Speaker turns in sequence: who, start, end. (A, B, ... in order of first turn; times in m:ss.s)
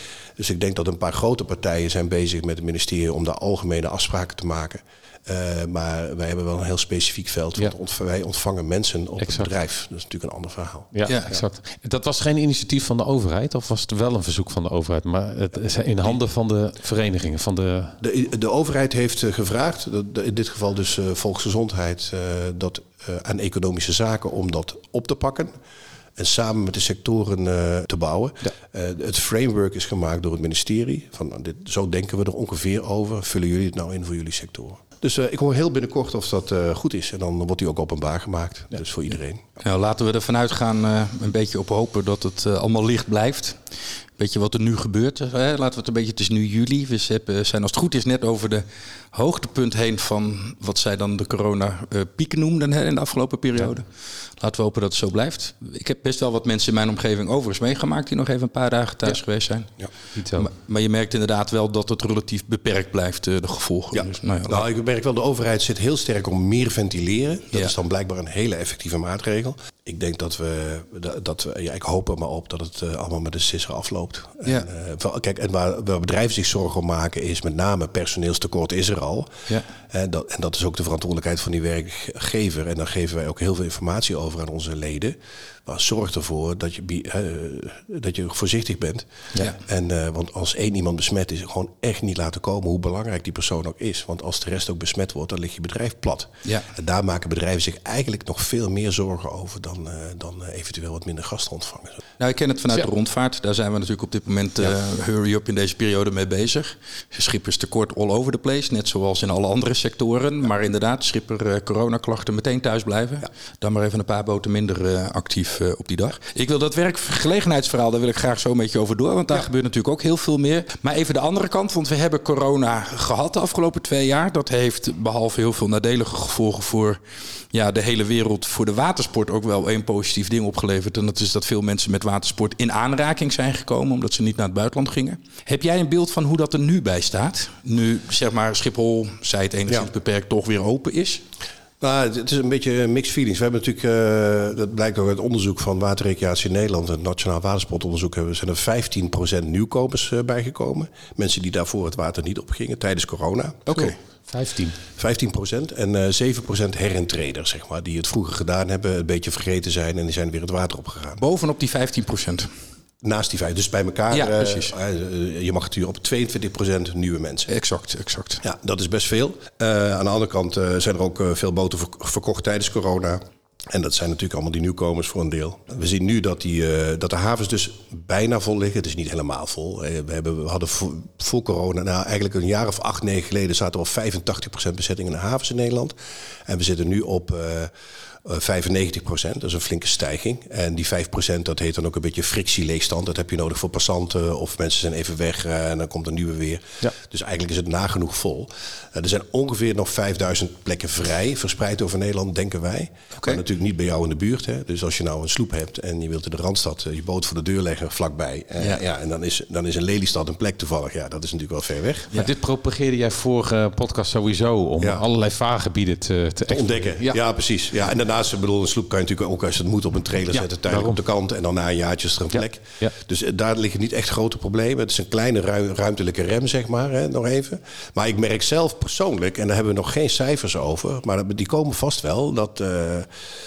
0:00.4-0:11.4 A
0:09.2-0:09.5 B
0:10.9-0:18.0 B
0:11.1-0:11.3 C
0:18.0-0:25.5 A
0:26.2-0:39.5 A
0:39.6-0:43.6 C
0:44.2-0:53.9 C
0:54.4-0:59.7 C
1:00.2-1:00.5 B
1:00.3-1:04.6 C
1:03.9-1:42.0 A
1:42.2-2:07.0 C
2:07.5-2:21.2 C
2:21.8-2:33.9 A
2:33.7-2:34.0 C
2:34.3-2:34.8 B
2:35.0-2:41.2 A
2:41.2-2:42.5 C
2:43.0-2:47.5 A
2:44.1-2:44.7 C
2:47.5-2:48.4 C
2:48.4-3:06.0 A
3:06.5-3:07.7 A
3:08.2-3:32.1 A
3:32.1-3:37.2 B
3:36.5-3:53.1 A
3:40.6-3:41.0 B
3:42.4-3:42.9 B